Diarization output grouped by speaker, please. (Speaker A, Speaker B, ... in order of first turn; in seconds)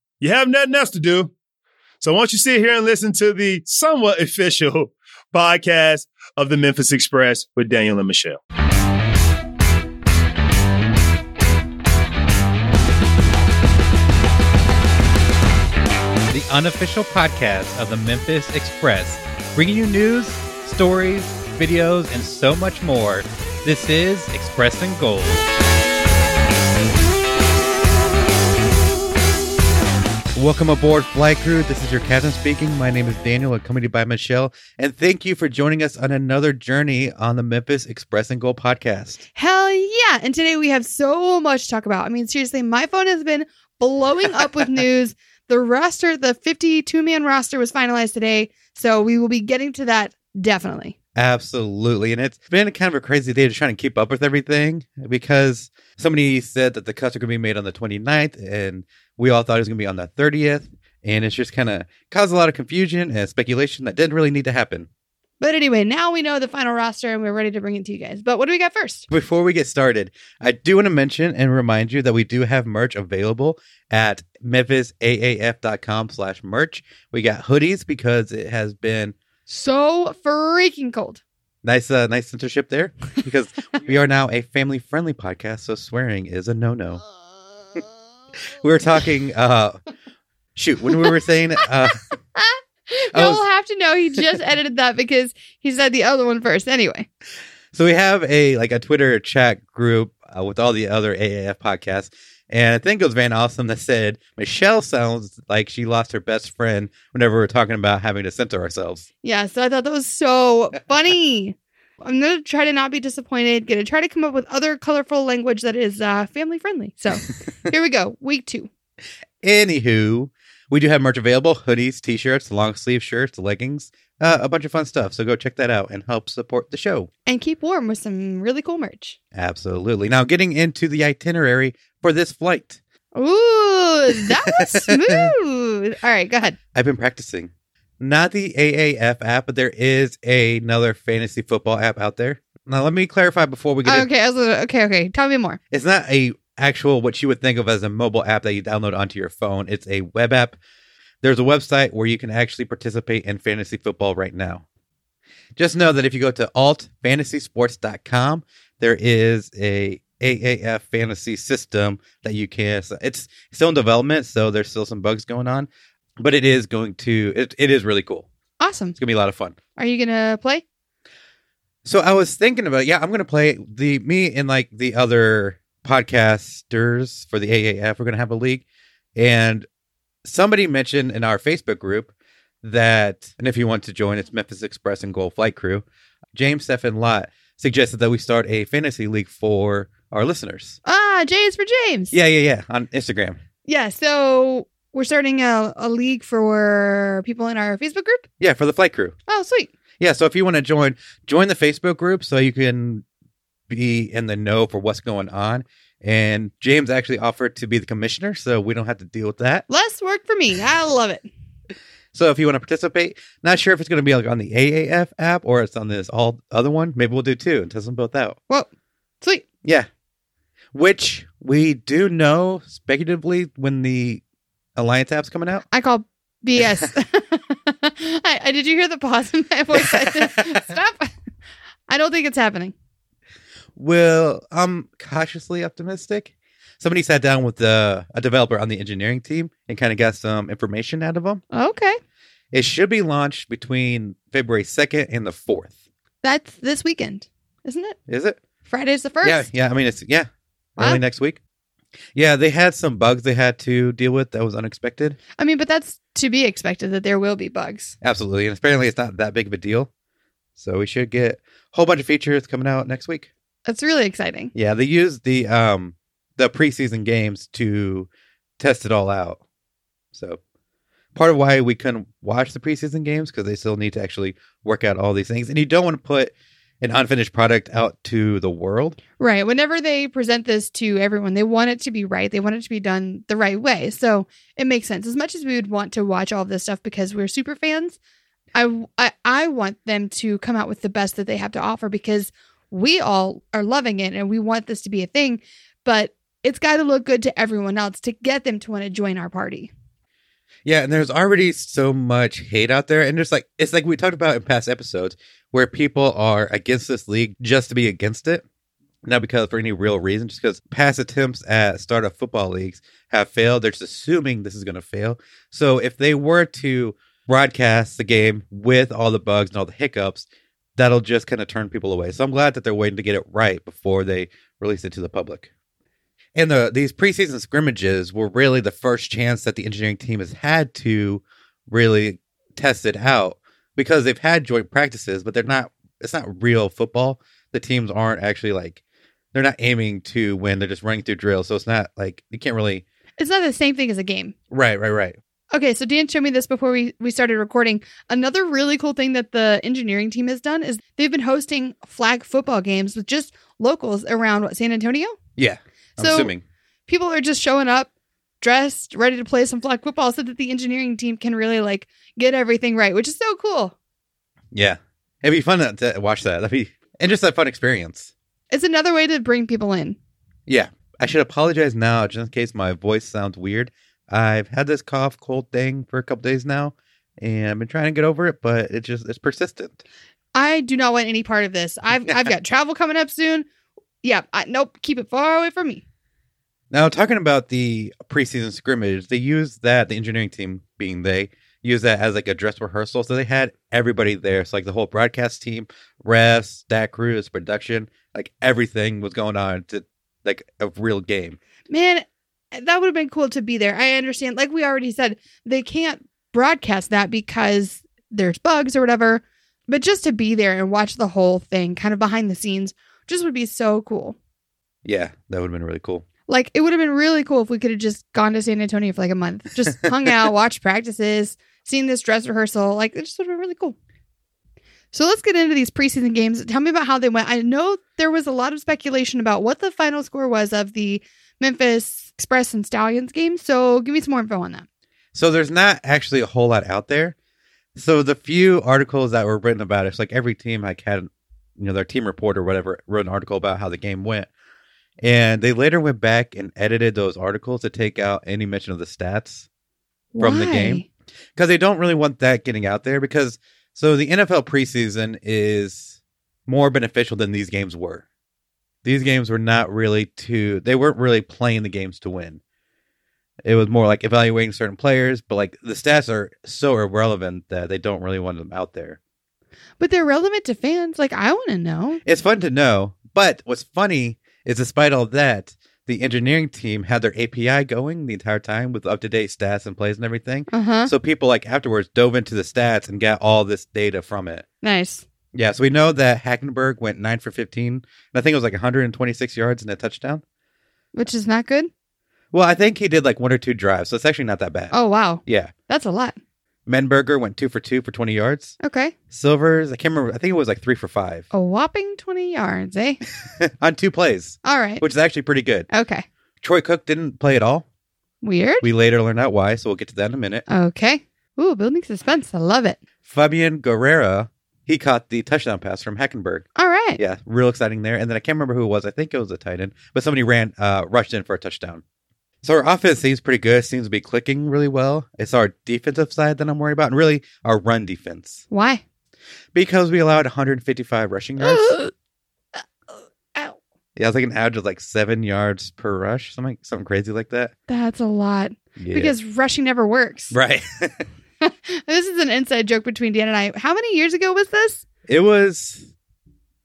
Speaker A: 0.2-1.3, 2.0-8.4
Speaker B: 16.3-25.5, 30.4-39.2, 51.2-64.9, 69.1-79.2, 81.6-87.0, 88.6-89.8, 90.6-92.0, 93.1-93.4, 97.7-109.1, 119.4-127.1, 129.3-132.8, 134.6-135.3, 136.7-144.1, 145.7-150.6, 151.2-154.6, 155.6-165.7, 166.2-168.3, 169.0-169.6, 171.8-178.6, 179.2-179.7, 180.2-190.8, 192.1-193.4, 198.4-199.2, 200.0-203.1, 203.7-209.7, 212.1-218.4, 220.7-224.2, 224.8-225.6, 229.9-230.6, 233.8-241.4, 242.5-245.7, 248.1-248.4, 249.2-251.4, 252.2-255.2, 258.0-259.9, 260.6-263.3, 264.6-268.1, 268.6-269.4, 270.1-270.4, 271.1-279.0, 300.6-308.4, 309.1-325.5, 326.4-338.8, 339.3-342.8, 344.5-345.2, 355.4-356.4, 364.5-368.1, 370.5-379.8, 386.7-401.4, 414.9-416.1, 435.1-437.1, 437.8-444.3, 445.0-449.5, 450.2-450.8, 451.4-458.0, 458.8-462.4, 463.4-469.0, 472.1-484.4, 485.3-490.2, 492.3-494.8, 495.3-495.5, 496.7-498.6, 499.1-501.3, 503.4-505.7, 506.4-507.7, 508.6-510.4, 513.0-521.8, 522.4-528.4, 529.5-531.8, 534.0-537.5, 538.8-539.1, 540.3-541.1, 545.1-545.9
Speaker C: 39.4-51.0, 65.4-69.1, 79.5-81.2, 92.4-97.1, 109.2-118.7, 127.3-129.2, 133.2-136.6, 143.8-145.6, 168.6-169.0, 169.8-170.6, 190.8-192.2, 193.7-198.2, 199.3-199.7, 209.7-211.3, 225.7-231.2, 231.9-232.7, 241.5-242.0, 246.2-248.0, 248.7-249.5, 255.4-258.0, 263.7-264.5, 279.2-288.0, 288.6-299.7, 343.2-344.4, 345.5-355.2, 356.0-356.3, 356.9-357.9, 358.4-363.8, 368.5-370.0, 380.3-383.5, 384.0-385.8, 401.7-414.2, 416.3-423.8, 424.9-434.6, 450.1-450.9, 469.8-472.0, 480.5-480.9, 484.6-485.1, 490.9-491.7, 494.7-496.2, 498.6-498.9, 501.3-503.0, 504.4-504.8, 505.7-506.1, 508.2-508.7, 510.5-512.8, 516.6-517.0, 528.5-528.8, 531.4-531.9, 532.6-533.6, 537.7-540.4, 541.4-544.8